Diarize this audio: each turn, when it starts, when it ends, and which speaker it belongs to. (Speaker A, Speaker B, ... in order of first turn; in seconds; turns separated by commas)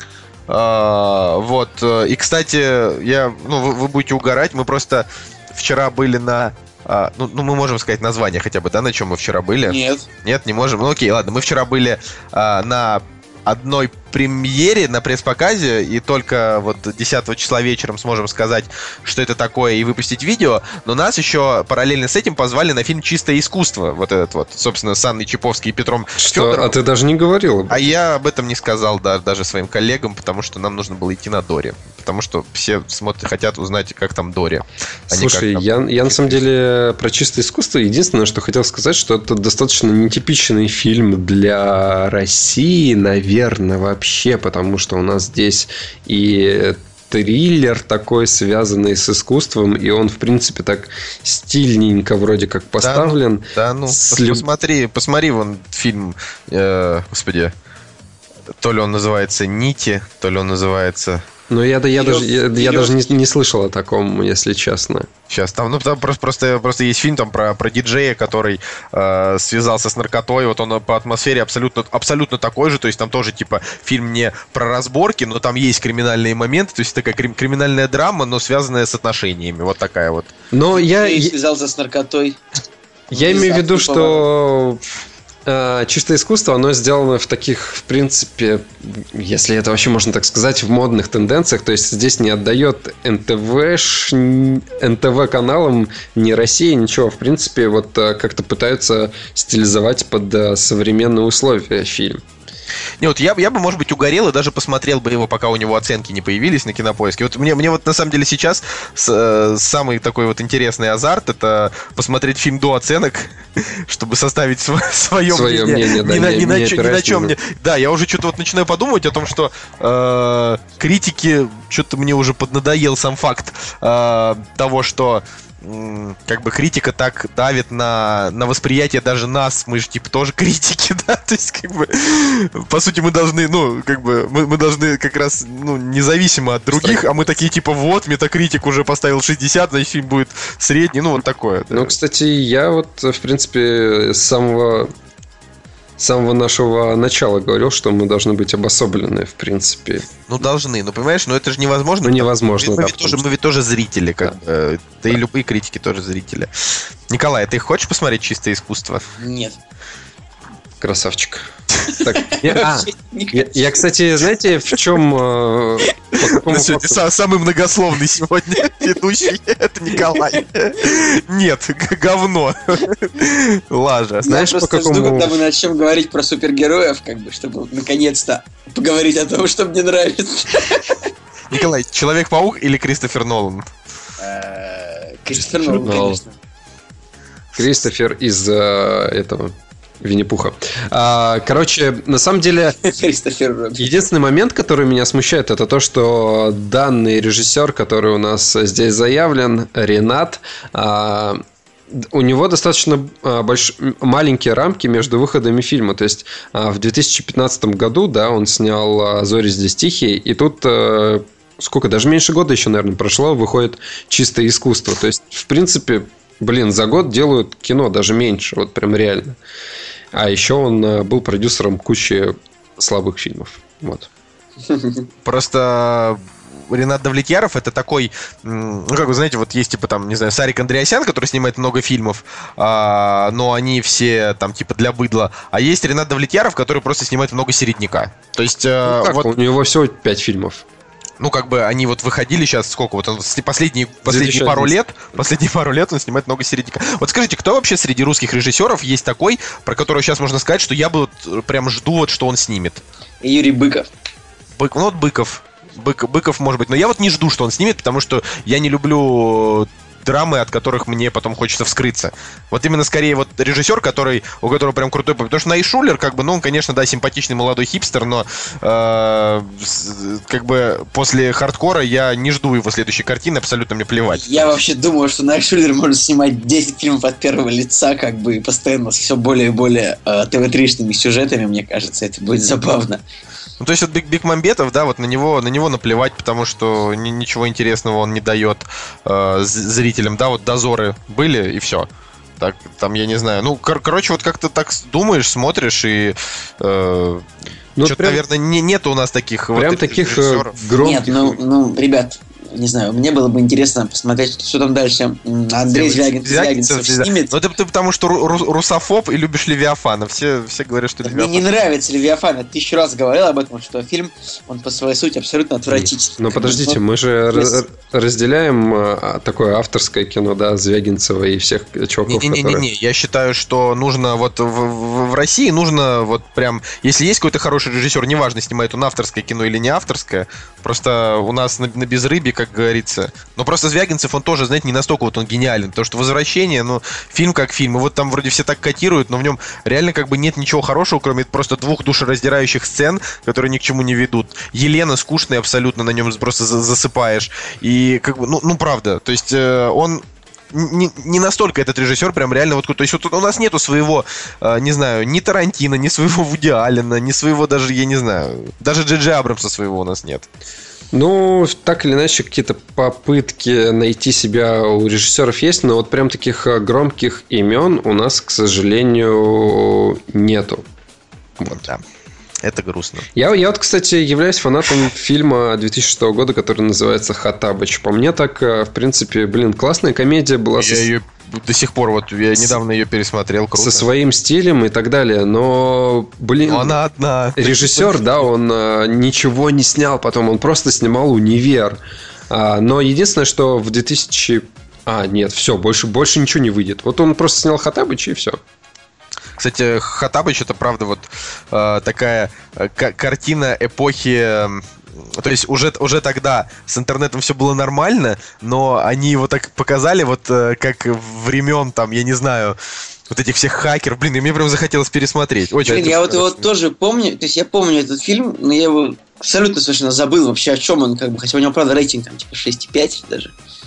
Speaker A: 0.5-26.7, Speaker B: 9.7-10.1, Speaker C: 26.2-27.9, Speaker A: 27.7-36.4, Speaker C: 35.1-54.4, Speaker A: 52.8-57.5, Speaker A: 58.6-61.2, Speaker C: 61.5-65.1, Speaker B: 62.0-63.1, Speaker A: 65.3-80.3, Speaker C: 80.5-81.3, Speaker B: 80.8-82.4, Speaker C: 83.1-84.8, Speaker B: 83.1-84.2, Speaker C: 85.5-102.2, Speaker A: 103.0-141.9, Speaker C: 115.3-117.3, Speaker C: 136.7-137.1, Speaker C: 141.7-144.9, Speaker C: 146.0-150.1, Speaker A: 150.3-156.5, Speaker C: 152.0-153.2, Speaker A: 157.1-159.1, Speaker B: 159.2-159.6, Speaker C: 160.8-167.0, Speaker B: 162.1-163.8, Speaker A: 166.2-174.3, Speaker B: 170.0-170.3, Speaker B: 174.2-181.1, Speaker C: 174.3-175.4, Speaker A: 181.5-183.7, Speaker B: 184.2-186.3, Speaker C: 185.6-186.2, Speaker C: 187.5-192.8, Speaker B: 192.8-193.9, Speaker C: 193.8-219.4, Speaker C: 220.1-224.1, Speaker B: 224.7-225.1, Speaker A: 225.2-239.3, Speaker C: 238.8-240.6, Speaker A: 241.2-252.8, Speaker C: 244.1-244.8, Speaker B: 253.2-253.9, Speaker A: 254.6-274.6, Speaker B: 274.2-283.0, Speaker A: 283.6-291.9, Speaker A: 292.4-297.3, Speaker C: 297.8-298.2, Speaker A: 297.8-300.6, Speaker C: 299.6-301.4, Speaker B: 300.8-307.3, Speaker A: 305.7-311.4, Speaker B: 311.0-316.8, Speaker C: 315.7-322.6, Speaker A: 322.1-360.3, Speaker C: 360.9-370.6, Speaker C: 371.4-371.6, Speaker A: 371.4-371.8, Speaker A: 372.4-373.1, Speaker C: 373.1-380.9, Speaker A: 380.6-383.9, Speaker C: 383.6-386.8, Speaker A: 386.4-388.1, Speaker C: 387.4-398.4, Speaker A: 399.4-412.6, Speaker A: 413.1-416.4, Speaker B: 415.7-423.3, Speaker C: 415.7-416.0